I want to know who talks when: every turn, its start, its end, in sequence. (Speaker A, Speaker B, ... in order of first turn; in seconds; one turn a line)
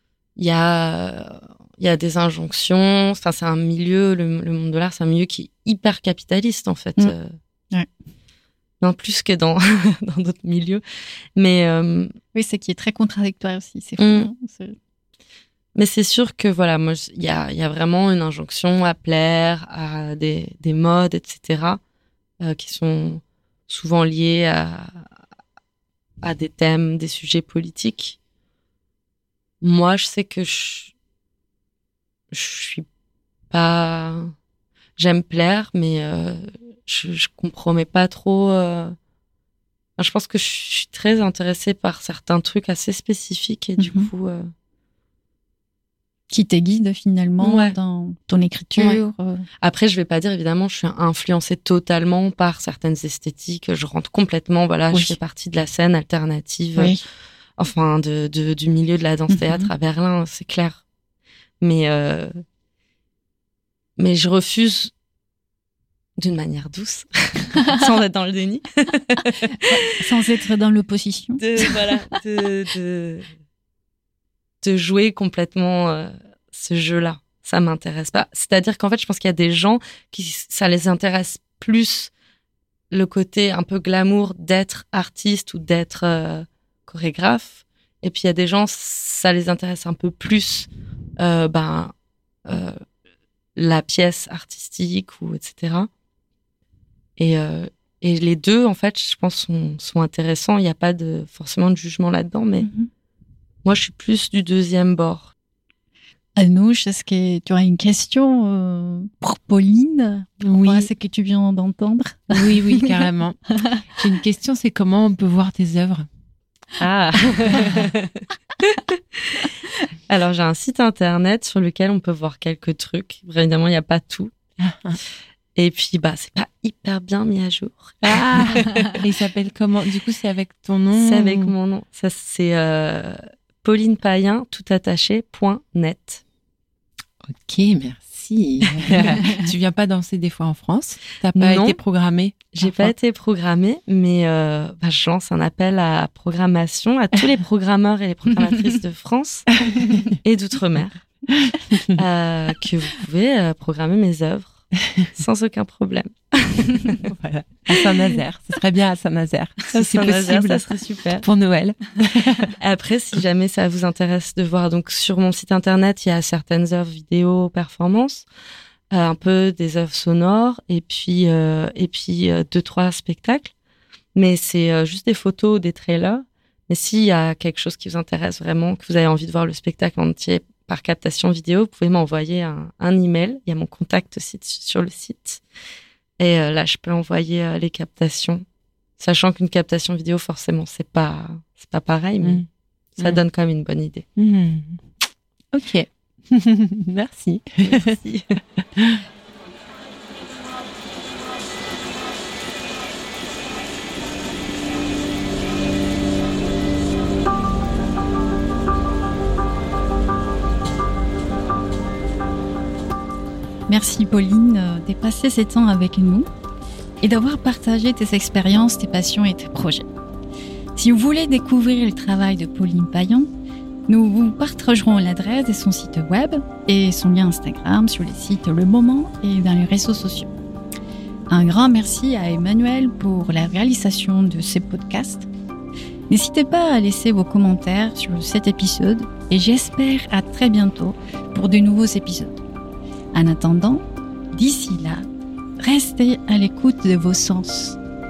Speaker A: 0.4-7.4
Speaker A: 8.8-10.8
Speaker A: 11.4-12.1
Speaker B: 12.3-14.8
Speaker A: 14.0-14.3
Speaker A: 15.8-21.8
Speaker A: 22.4-25.1
Speaker A: 26.2-28.2
Speaker A: 29.6-30.9
Speaker A: 32.3-32.9
Speaker A: 33.5-34.3
Speaker A: 35.0-39.0
Speaker A: 40.0-44.5
Speaker B: 43.8-44.1
Speaker B: 46.3-49.5
Speaker A: 47.4-47.8
Speaker A: 48.8-49.0
Speaker A: 49.6-57.0
Speaker B: 54.9-55.2
Speaker B: 56.8-57.0
Speaker A: 57.6-60.8
Speaker B: 59.3-59.7
Speaker A: 61.6-62.3
Speaker A: 64.0-64.9
Speaker A: 66.2-69.6
Speaker B: 69.6-72.0
Speaker A: 71.4-73.3
Speaker A: 74.6-82.1
Speaker A: 82.9-91.9
Speaker A: 92.5-92.8
Speaker A: 93.6-95.9
Speaker A: 97.2-102.7
Speaker B: 102.6-102.9
Speaker A: 103.6-105.3
Speaker B: 106.4-112.8
Speaker C: 110.4-110.9
Speaker C: 112.3-116.1
Speaker A: 116.8-119.5
Speaker C: 117.5-117.8
Speaker A: 120.1-124.3
Speaker C: 124.6-125.0
Speaker A: 125.5-128.9
Speaker C: 128.0-131.5
Speaker A: 130.9-136.2
Speaker C: 137.2-142.9
Speaker A: 138.8-139.2
Speaker A: 141.3-141.8
Speaker A: 142.5-151.1
Speaker C: 151.5-151.9
Speaker A: 151.9-157.0
Speaker C: 156.9-160.6
Speaker A: 159.7-161.3
Speaker C: 161.2-162.5
Speaker A: 162.6-168.3
Speaker A: 168.9-173.5
Speaker A: 174.2-185.4
Speaker A: 186.2-188.4
Speaker A: 189.0-192.5
Speaker C: 192.2-192.5
Speaker A: 193.0-194.1
Speaker C: 194.2-194.8
Speaker C: 195.5-198.0
Speaker A: 197.6-198.4
Speaker C: 198.6-199.0
Speaker B: 213.7-216.3
Speaker B: 217.0-219.9
Speaker B: 220.8-223.3
Speaker B: 223.9-230.3
Speaker B: 231.3-235.3
Speaker B: 236.1-242.4
Speaker B: 243.1-245.1
Speaker B: 245.6-247.8